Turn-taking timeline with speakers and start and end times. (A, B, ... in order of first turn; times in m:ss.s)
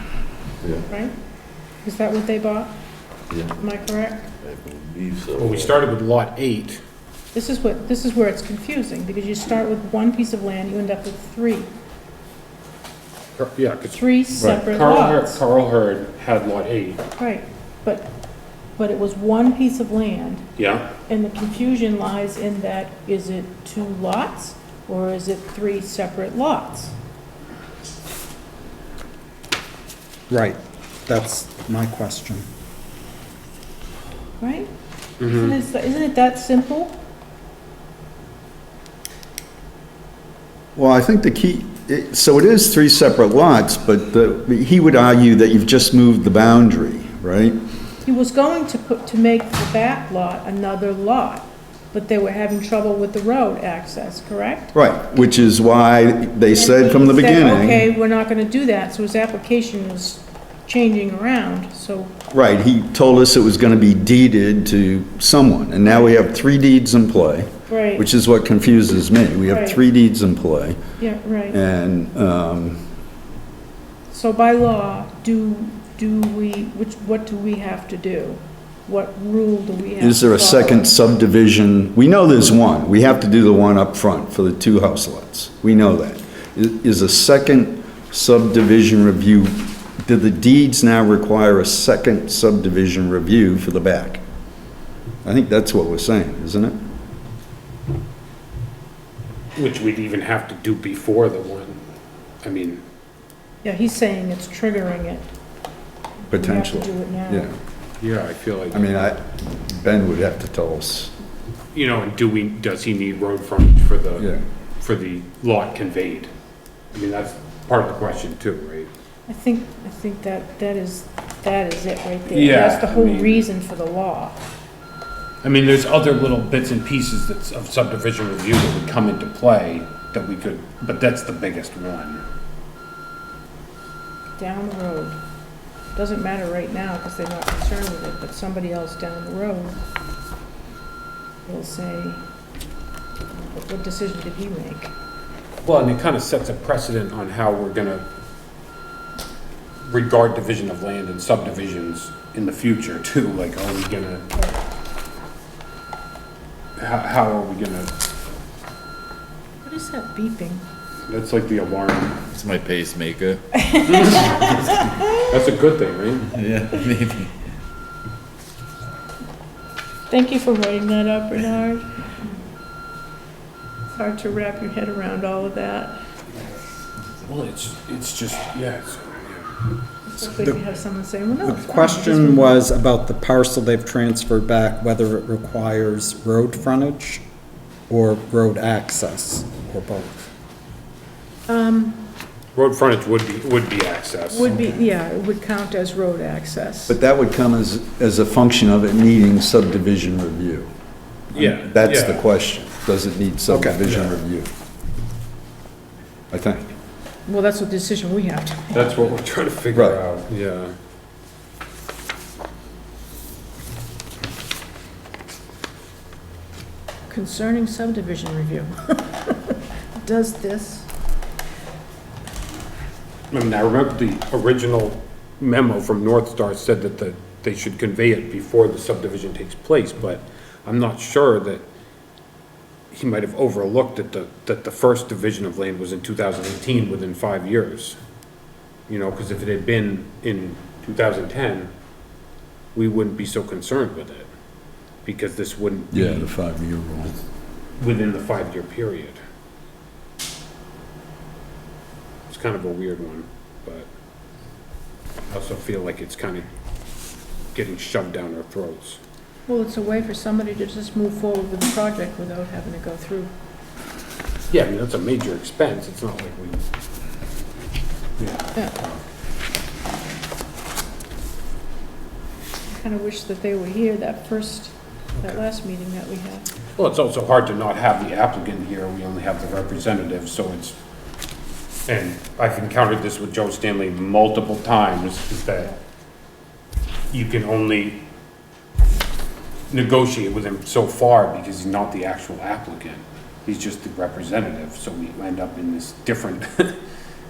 0:00.9-0:01.1 A
0:01.8-0:02.7 A
0:03.5-0:04.3 A
0:04.4-0:05.8 B
0:05.4-0:06.8 C
0:07.3-0:11.7 A
0:13.4-0:17.0 C
0:13.9-0:15.4 A
0:17.2-0:18.1 A
0:18.8-0:20.5 A
0:20.6-0:20.9 C
0:21.1-0:26.9 A
0:30.3-0:32.4 D
0:34.4-0:34.7 A
0:35.2-0:35.5 C
0:35.2-0:37.0 A
0:40.8-0:47.6 E
0:48.0-0:54.7 A
0:54.7-0:57.9 E
0:56.5-1:02.1 A
1:02.3-1:10.8 E
1:07.7-1:08.0 A
1:09.5-1:09.8 A
1:11.0-1:11.6 A
1:11.5-1:12.8 E
1:14.1-1:20.8 A
1:20.0-1:34.2 E
1:35.2-1:36.8 E
1:39.6-1:41.8 C
1:42.4-1:42.8 C
1:43.6-1:45.3 A
1:46.3-1:47.6 E
1:46.3-1:47.5 A
1:48.0-1:48.9 C
1:48.7-1:51.1 E
1:51.7-1:54.3 C
1:54.8-1:56.3 C
1:56.9-1:58.9 C
1:59.3-2:04.4 A
2:02.3-2:03.5 C
2:05.4-2:12.2 C
2:14.4-2:15.2 A
2:15.9-2:19.8 A
2:21.4-2:22.2 A
2:23.4-2:24.9 A
2:25.6-2:28.0 C
2:29.8-2:34.5 C
2:36.8-2:37.9 C
2:39.6-2:40.6 A
2:41.1-2:42.2 C
2:42.3-2:43.6 B
2:43.6-2:45.0 A
2:43.8-2:44.7 C
2:44.4-2:44.8 B
2:45.2-2:46.3 C
2:46.3-2:47.3 B
2:50.1-2:51.9 A
2:53.9-2:56.0 A
2:57.2-2:59.5 C
3:00.0-3:02.6 A
3:01.4-3:07.2 D
3:07.9-3:10.2 D
3:11.5-3:12.0 A
3:12.5-3:14.5 C
3:14.3-3:17.0 A
3:16.9-3:20.7 E
3:21.3-3:24.5 E
3:21.3-3:22.3 C
3:23.5-3:24.2 C
3:26.3-3:26.7 E
3:27.2-3:28.9 A
3:28.7-3:30.7 C
3:29.7-3:30.0 E
3:37.1-3:39.3 A
3:40.0-3:40.9 A
3:43.3-3:51.6 C
3:52.9-3:58.0 C
3:58.9-4:01.7 C
4:02.7-4:04.3 C
4:05.0-4:06.3 C
4:05.9-4:07.1 E
4:07.8-4:09.2 C
4:12.3-4:13.9 C
4:15.3-4:16.4 C
4:17.5-4:19.0 C
4:19.5-4:23.3 A
4:24.5-4:26.6 C
4:28.2-4:29.0 C
4:32.7-4:36.5 A
4:36.8-4:40.8 C
4:41.9-4:45.8 C
4:47.1-4:48.0 C
4:49.7-4:56.8 C